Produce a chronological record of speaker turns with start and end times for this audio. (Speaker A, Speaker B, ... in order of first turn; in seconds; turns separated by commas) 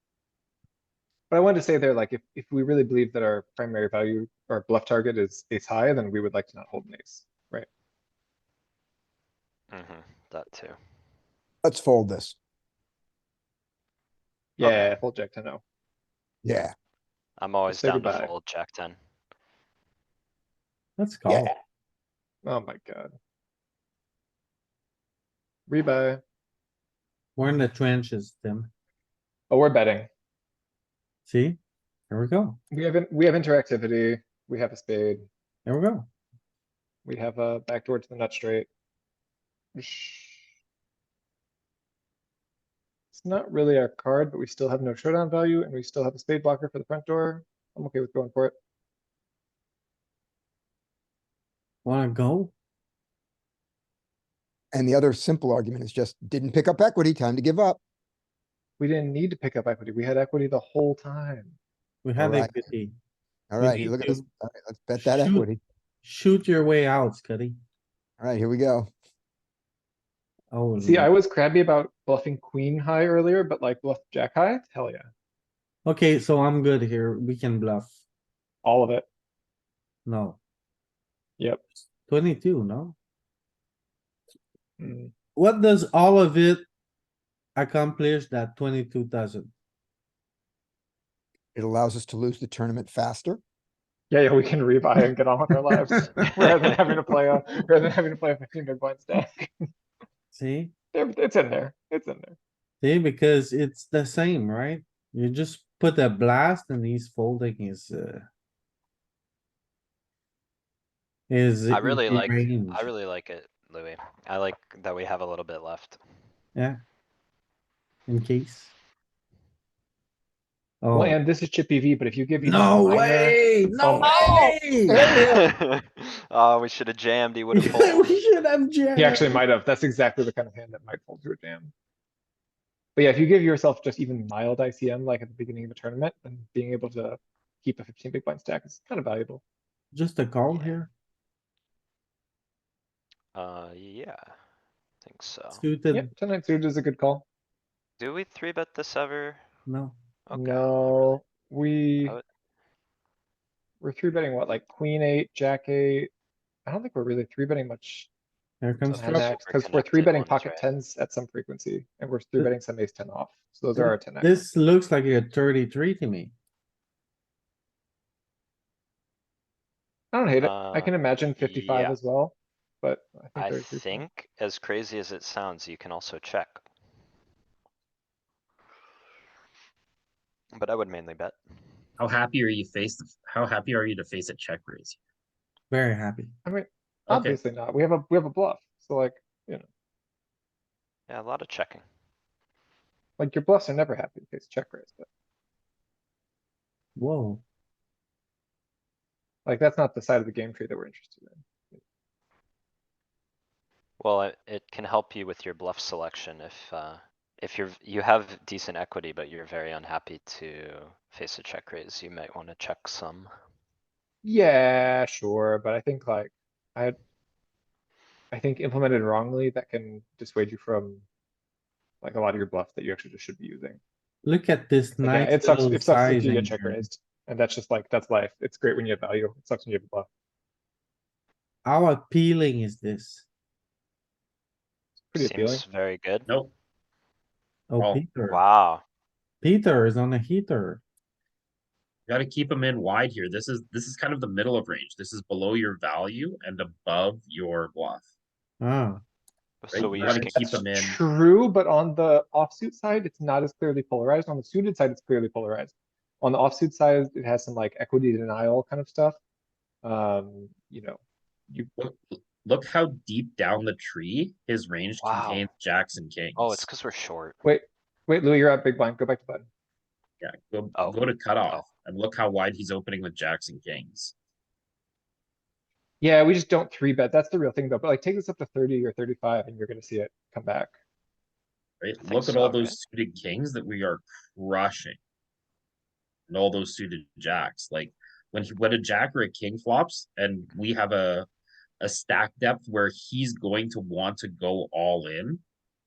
Speaker A: 1.3-7.7, Speaker B: 9.7-10.8, Speaker C: 11.6-12.3, Speaker A: 14.6-15.6, Speaker B: 14.6-14.9, Speaker C: 16.4-16.7, Speaker B: 17.4-18.9, Speaker A: 17.7-18.3, Speaker D: 21.0-21.5, Speaker C: 21.2-21.5, Speaker A: 22.4-23.1, Speaker A: 25.7-26.2, Speaker D: 27.4-28.7, Speaker A: 29.5-30.1, Speaker D: 31.3-31.6, Speaker D: 32.1-32.6, Speaker A: 32.7-35.3, Speaker D: 35.6-36.1, Speaker A: 37.0-38.7, Speaker A: 39.7-40.4, Speaker A: 43.1-48.5, Speaker D: 51.8-52.5, Speaker C: 54.7-57.8, Speaker A: 58.8-61.6, Speaker D: 62.0-62.9, Speaker C: 62.2-62.6, Speaker C: 63.5-65.6, Speaker D: 63.6-64.2, Speaker D: 65.0-65.5, Speaker D: 66.0-67.5, Speaker C: 68.2-68.9, Speaker D: 70.5-71.1, Speaker A: 70.8-75.1, Speaker D: 75.8-77.9, Speaker A: 78.6-79.1, Speaker D: 80.0-80.4, Speaker D: 82.1-83.0, Speaker A: 84.8-85.1, Speaker D: 85.3-86.6, Speaker D: 87.5-89.5, Speaker C: 91.5-93.4, Speaker A: 94.1-99.5, Speaker D: 100.3-100.7, Speaker A: 100.9-102.4, Speaker D: 102.8-108.2, Speaker D: 111.3-112.9, Speaker B: 111.7-116.0, Speaker D: 118.1-118.7, Speaker D: 120.8-121.2, Speaker A: 120.9-124.5, Speaker D: 122.4-125.1, Speaker C: 124.1-125.5, Speaker B: 125.1-128.2, Speaker D: 127.5-129.4, Speaker A: 128.9-131.7, Speaker A: 132.9-139.4, Speaker D: 139.9-140.9, Speaker B: 140.5-140.8, Speaker B: 143.3-144.3, Speaker B: 145.0-145.6, Speaker D: 145.5-146.1, Speaker A: 145.9-147.2, Speaker B: 148.0-149.4, Speaker D: 149.7-149.9, Speaker B: 150.3-151.2, Speaker A: 150.3-152.2, Speaker A: 153.8-156.1, Speaker A: 156.7-158.1, Speaker D: 158.6-159.3, Speaker A: 158.9-164.4, Speaker B: 158.9-160.7, Speaker D: 163.7-166.3, Speaker A: 170.1-174.0, Speaker B: 170.4-172.0, Speaker B: 173.3-176.6, Speaker B: 180.5-181.4, Speaker E: 182.0-185.0, Speaker D: 185.7-186.3, Speaker A: 186.4-189.7, Speaker E: 187.1-187.4, Speaker B: 191.1-191.8, Speaker A: 193.2-195.1, Speaker D: 197.0-197.4, Speaker A: 199.4-201.8, Speaker B: 204.0-213.3, Speaker A: 214.2-217.0, Speaker A: 218.3-221.0, Speaker A: 222.0-223.8, Speaker D: 224.2-226.8, Speaker A: 225.0-230.1, Speaker D: 231.7-233.2, Speaker A: 235.1-235.6, Speaker B: 235.2-236.3, Speaker D: 237.7-238.4, Speaker E: 237.8-238.0, Speaker B: 238.2-238.8, Speaker D: 239.4-240.8, Speaker E: 242.1-248.0, Speaker D: 248.6-249.0, Speaker B: 249.6-250.7, Speaker E: 249.7-251.0, Speaker A: 249.9-259.2, Speaker A: 259.8-261.7, Speaker E: 261.8-266.7, Speaker B: 265.0-265.5, Speaker B: 266.4-267.4, Speaker A: 267.4-269.5, Speaker E: 270.2-274.1, Speaker B: 270.7-271.7, Speaker A: 276.0-280.7, Speaker E: 281.8-285.0, Speaker B: 282.0-282.8, Speaker E: 286.3-291.3, Speaker E: 291.8-295.4